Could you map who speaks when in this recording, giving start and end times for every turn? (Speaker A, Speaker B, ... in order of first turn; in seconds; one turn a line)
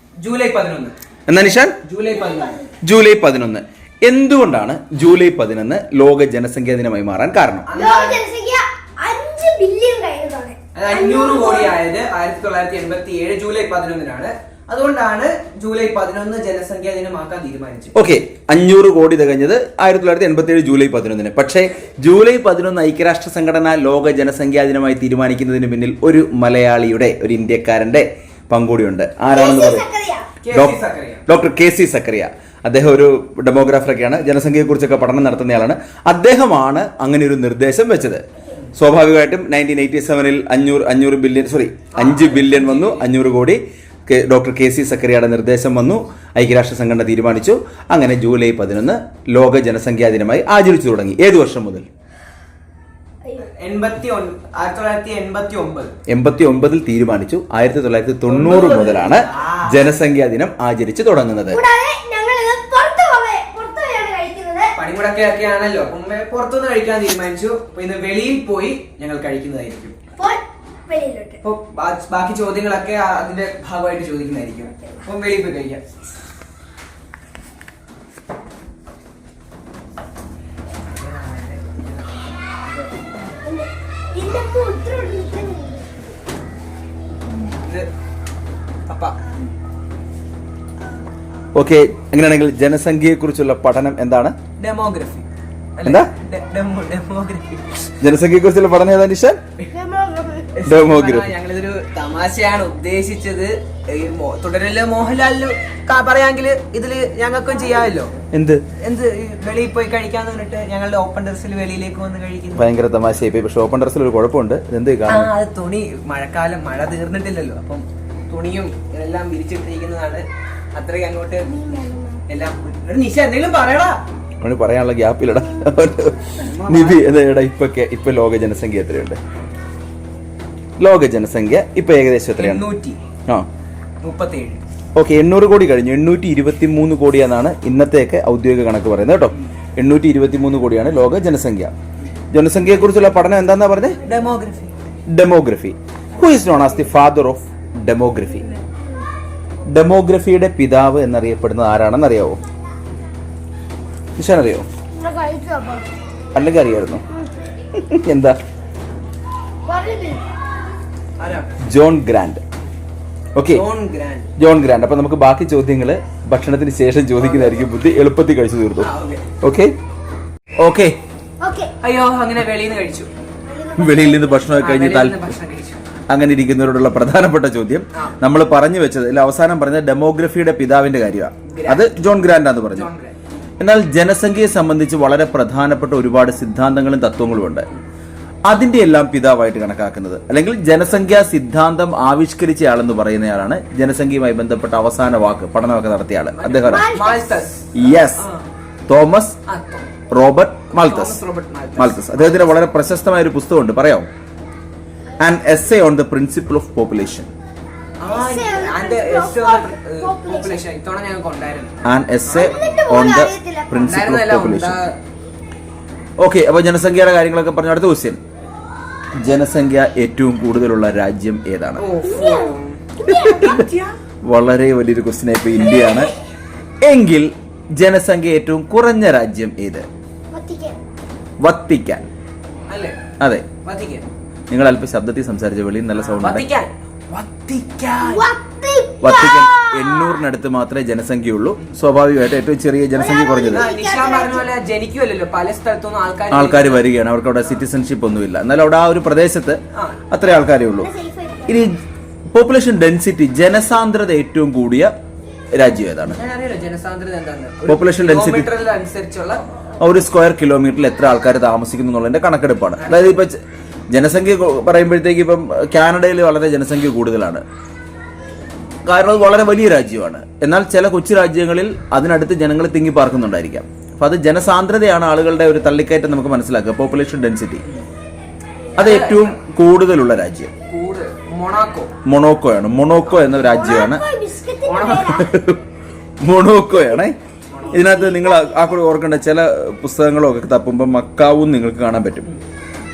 Speaker A: 0.2-1.0
Speaker B: 1.3-1.8
Speaker A: 1.8-2.6
Speaker C: 2.1-2.6
Speaker B: 2.8-7.7
Speaker A: 7.7-8.2
Speaker C: 7.7-11.8
Speaker A: 10.8-17.9
Speaker B: 17.9-29.9
Speaker C: 29.3-30.3
Speaker A: 30.4-31.2
Speaker B: 30.5-30.8
Speaker B: 31.3-51.9
Speaker A: 41.9-43.1
Speaker A: 53.6-55.9
Speaker B: 56.1-61.6
Speaker A: 58.3-59.9
Speaker C: 61.5-64.7
Speaker A: 64.8-70.0
Speaker C: 70.2-71.4
Speaker A: 71.4-75.8
Speaker A: 80.9-82.9
Speaker C: 83.5-85.9
Speaker A: 87.5-87.9
Speaker A: 88.9-89.2
Speaker B: 91.5-94.4
Speaker A: 94.6-95.2
Speaker A: 95.8-97.9
Speaker B: 95.8-96.1
Speaker B: 98.0-99.4
Speaker C: 99.7-100.6
Speaker A: 100.5-108.1
Speaker B: 100.7-101.3
Speaker B: 108.3-108.6
Speaker A: 108.8-112.7
Speaker B: 112.5-115.3
Speaker A: 115.1-121.5
Speaker C: 121.5-122.2
Speaker A: 122.3-124.0
Speaker B: 124.4-129.2
Speaker A: 126.4-127.0
Speaker B: 130.8-132.6
Speaker A: 132.4-133.0
Speaker A: 134.0-134.6
Speaker B: 135.0-141.7
Speaker B: 142.3-144.0
Speaker A: 144.0-144.8
Speaker B: 145.1-148.5
Speaker B: 149.7-152.4
Speaker B: 154.2-154.7
Speaker C: 155.0-155.9
Speaker B: 156.3-157.0
Speaker B: 157.8-158.4
Speaker C: 159.7-160.2
Speaker A: 161.2-161.5
Speaker B: 161.6-162.4
Speaker B: 163.3-163.6
Speaker A: 163.5-164.3
Speaker B: 164.4-168.9
Speaker A: 168.8-169.3
Speaker B: 169.4-169.7
Speaker B: 170.6-170.9
Speaker C: 171.4-171.7
Speaker A: 171.8-173.1
Speaker C: 173.5-174.5
Speaker B: 173.8-175.3
Speaker A: 174.5-175.8
Speaker B: 176.1-182.9
Speaker A: 181.5-182.2
Speaker A: 182.7-183.2
Speaker B: 183.6-187.7
Speaker B: 188.5-196.9
Speaker A: 196.4-198.5
Speaker C: 196.6-197.4
Speaker B: 197.8-198.3
Speaker B: 198.9-199.4
Speaker A: 199.5-199.9
Speaker B: 200.1-201.2
Speaker A: 200.7-202.6
Speaker B: 201.8-204.1
Speaker B: 205.2-207.3
Speaker A: 208.0-212.9
Speaker C: 208.1-210.6
Speaker B: 211.8-214.8
Speaker C: 212.3-213.9
Speaker A: 213.8-215.0
Speaker B: 216.2-218.2
Speaker B: 219.2-221.8
Speaker A: 221.8-223.9
Speaker C: 222.0-223.6
Speaker B: 223.1-223.6
Speaker B: 224.3-226.1
Speaker A: 225.6-226.0
Speaker B: 226.8-229.9
Speaker C: 230.3-230.8
Speaker B: 231.4-232.1
Speaker A: 232.7-233.0
Speaker B: 233.2-233.5
Speaker A: 233.6-234.1
Speaker B: 234.5-236.4
Speaker A: 236.0-238.3
Speaker C: 238.0-240.2
Speaker B: 239.0-243.7
Speaker C: 243.0-244.5
Speaker A: 243.5-246.8
Speaker B: 246.3-249.6
Speaker A: 249.7-250.0
Speaker B: 250.1-250.9
Speaker C: 250.8-251.7
Speaker B: 251.5-251.8
Speaker B: 252.3-254.9
Speaker B: 255.5-256.2
Speaker A: 256.1-259.4
Speaker B: 257.7-258.5
Speaker B: 259.8-263.4
Speaker A: 262.8-263.2
Speaker B: 263.9-267.4
Speaker B: 268.9-277.6
Speaker A: 278.8-279.4
Speaker B: 278.8-280.5
Speaker A: 280.7-281.9
Speaker B: 282.1-284.0
Speaker C: 283.3-285.3
Speaker A: 284.6-285.2
Speaker B: 285.1-285.6
Speaker B: 286.2-287.1
Speaker B: 287.7-292.3
Speaker C: 287.7-288.8